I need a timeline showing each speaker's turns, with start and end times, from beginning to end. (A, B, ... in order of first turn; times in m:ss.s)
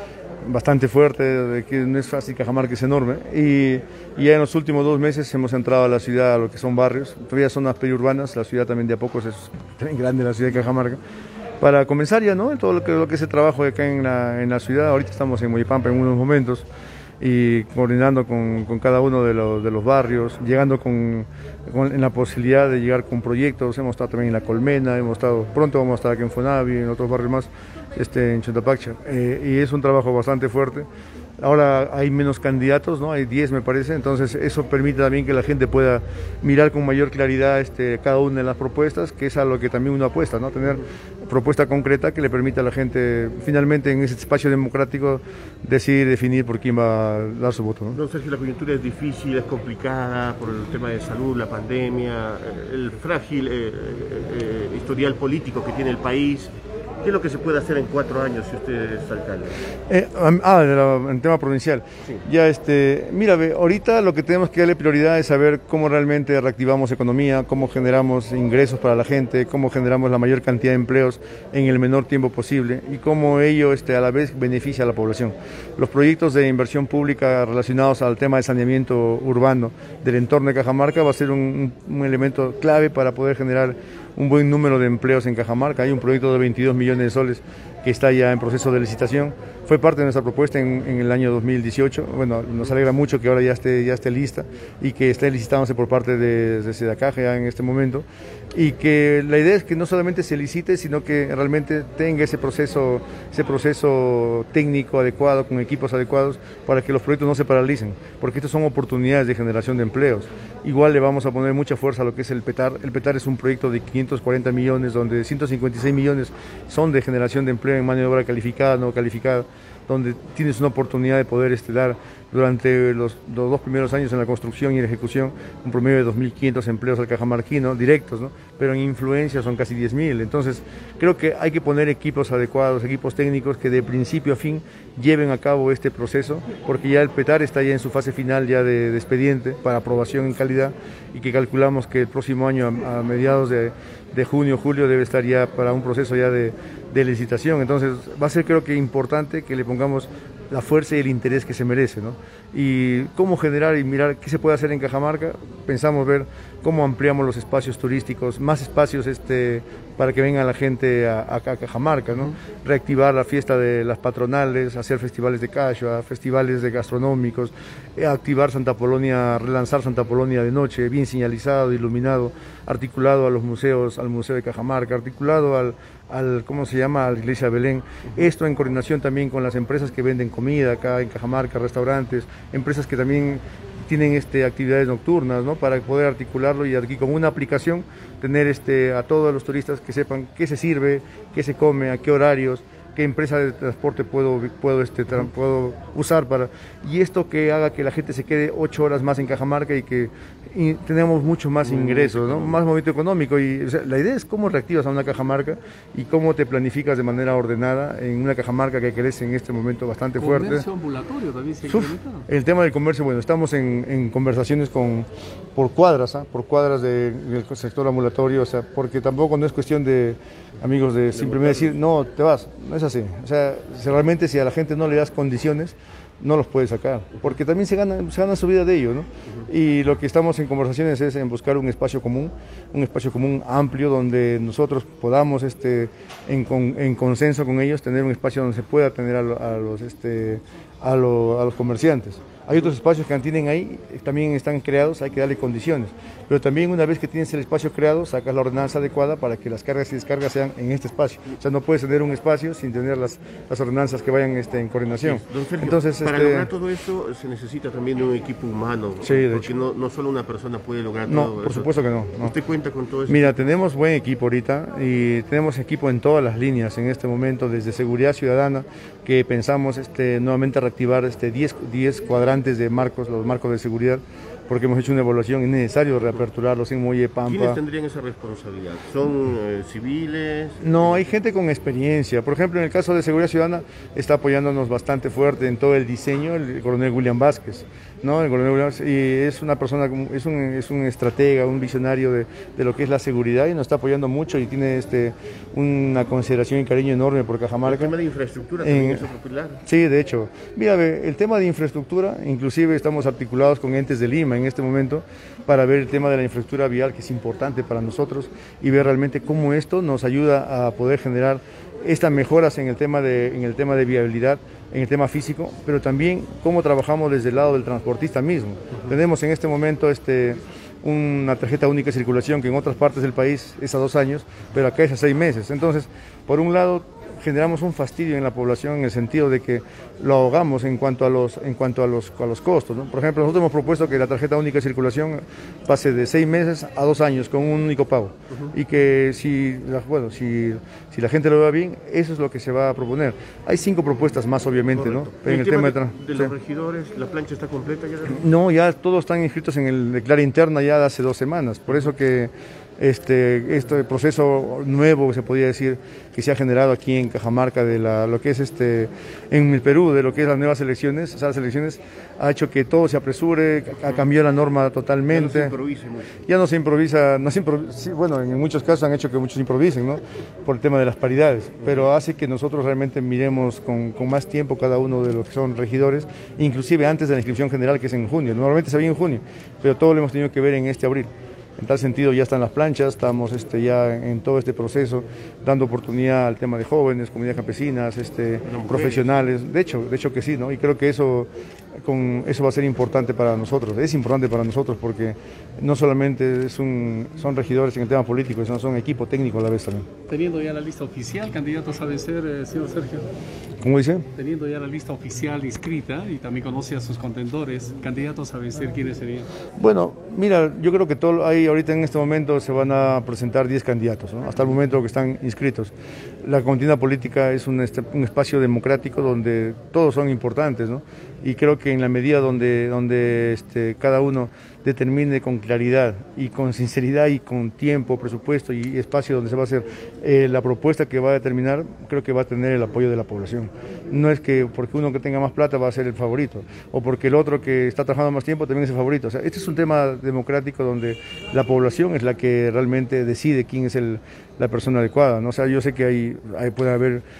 0:00.4-0:11.0 A
0:11.6-0:16.7 A
0:17.2-0:30.9 A
0:31.4-0:48.0 A
0:47.9-0:59.6 B
0:59.9-3:30.7 A
3:21.6-3:22.6 B
3:30.2-3:32.2 C
3:31.7-4:16.5 A
3:41.2-3:41.8 B
4:15.0-4:23.4 B
4:19.0-4:19.5 A
4:21.1-4:22.3 A
4:23.1-4:37.6 A
4:37.2-4:41.1 B
4:40.6-4:57.9 A
4:57.7-4:59.6 B
4:58.6-4:59.1 A
4:59.6-5:46.3 A
5:44.8-5:48.2 B
5:48.1-6:05.6 A
6:05.1-6:06.2 B
6:06.2-6:31.3 A
6:28.4-6:29.1 B
6:31.8-6:39.9 A
6:40.1-6:43.1 C
6:43.6-6:44.1 A
6:44.1-6:49.3 C
6:49.6-7:27.0 A